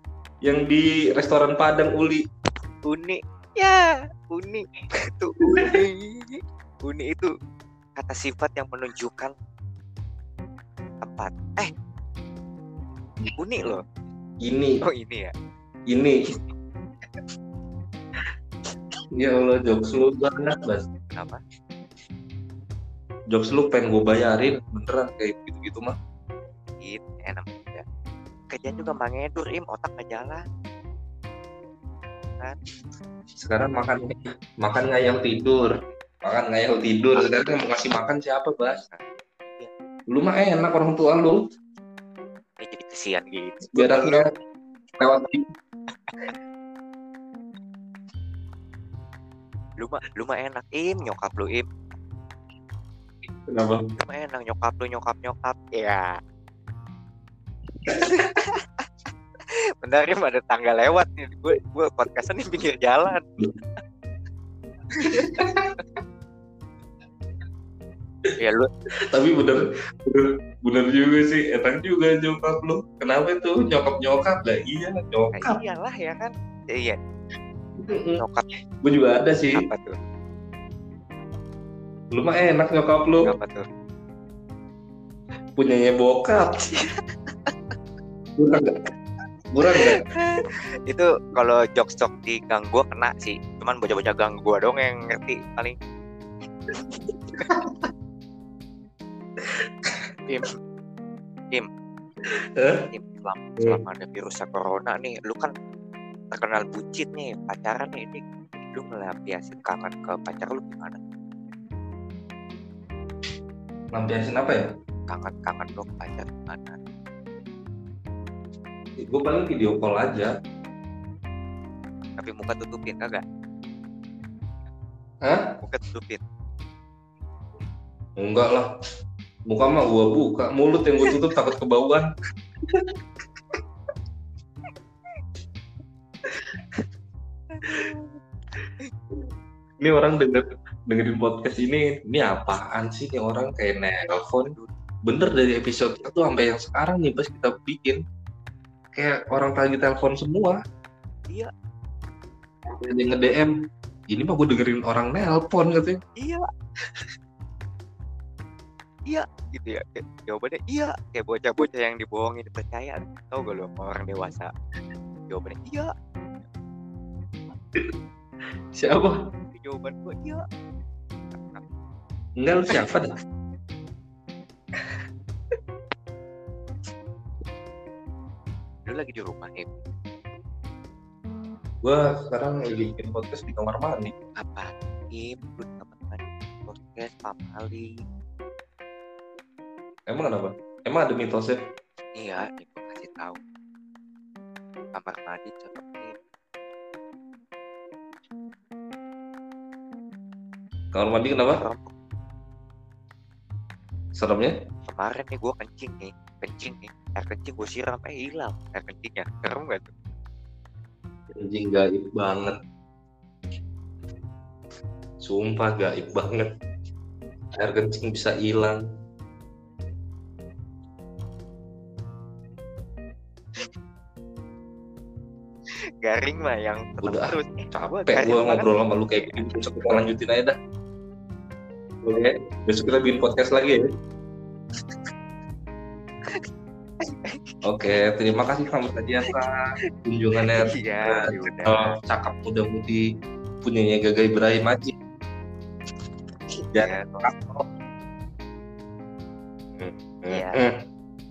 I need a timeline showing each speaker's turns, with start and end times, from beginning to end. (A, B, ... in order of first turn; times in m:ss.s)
0:00.4-0:02.2 A
0:02.8-0:07.3 B
0:05.5-0:05.8 A
0:08.0-0:09.3 B
0:11.0-0:11.7 B
0:13.4-0:13.8 B
0:14.4-0:14.8 A
0:14.8-0:15.3 B
0:15.9-0:16.2 A
0:19.2-0:20.8 A
0:21.1-0:21.4 B
0:23.3-0:25.9 A
0:26.8-0:27.8 B
0:28.5-0:30.4 B
0:33.4-0:38.8 A
0:38.9-0:39.7 B
0:40.1-0:41.4 A
0:42.6-0:44.2 B
0:43.7-0:44.2 A
0:45.0-0:45.4 A
0:49.8-0:51.7 B
0:53.5-0:53.8 A
0:54.0-0:56.1 B
0:57.8-0:58.9 B
0:59.8-1:03.2 B
1:05.0-1:05.8 B
1:05.2-1:05.7 A
1:08.4-1:08.7 B
1:09.1-1:15.6 A
1:15.3-1:17.0 B
1:17.8-1:18.2 A
1:18.2-1:18.5 B
1:18.8-1:19.6 A
1:19.6-1:20.0 B
1:22.1-1:23.3 A
1:23.2-1:23.6 B
1:25.6-1:26.6 A
1:26.7-1:27.5 B
1:28.4-1:28.8 A
1:29.5-1:30.0 A
1:29.8-1:35.8 B
1:37.4-1:37.9 A
1:39.4-1:40.0 A
1:42.2-1:42.8 A
1:42.8-1:45.5 B
1:46.3-1:51.0 B
1:53.9-1:54.7 A
1:55.1-1:56.8 B
1:59.0-2:00.3 A
2:02.2-2:03.2 B
2:05.2-2:05.6 A
2:05.6-2:06.2 B
2:08.2-2:08.7 A
2:09.5-2:12.1 A
2:12.7-2:12.9 A
2:17.5-2:18.2 B
2:19.8-2:24.6 A
2:24.4-2:24.7 B
2:25.1-2:28.0 A
2:29.0-2:30.6 A
2:32.7-2:33.5 A
2:34.1-2:36.0 A
2:36.2-2:36.5 B
2:39.1-2:44.5 B
2:45.3-2:45.9 B
2:48.8-2:49.2 A
2:49.5-2:50.4 B
2:51.3-2:51.6 B
2:52.4-2:53.1 A
2:58.9-2:59.7 B
3:01.8-3:04.1 A
3:04.4-3:07.9 B
3:10.1-3:11.6 A
3:12.2-3:13.4 B
3:14.9-3:16.1 B
3:20.9-3:21.6 A
3:21.5-3:21.9 B
3:24.2-3:24.5 A
3:24.9-3:29.9 B
3:31.4-3:32.6 A
3:35.2-3:36.5 A
3:37.6-3:38.8 A
3:46.0-3:49.5 B
3:47.0-3:50.6 A
3:52.0-3:53.8 A
3:57.0-3:58.0 B
3:57.7-3:59.5 A
4:00.0-4:03.0 A
4:00.5-4:02.0 B
4:03.6-4:04.9 A
4:06.6-4:07.3 B
4:06.7-4:07.6 A
4:09.8-4:10.7 A
4:10.3-4:10.6 B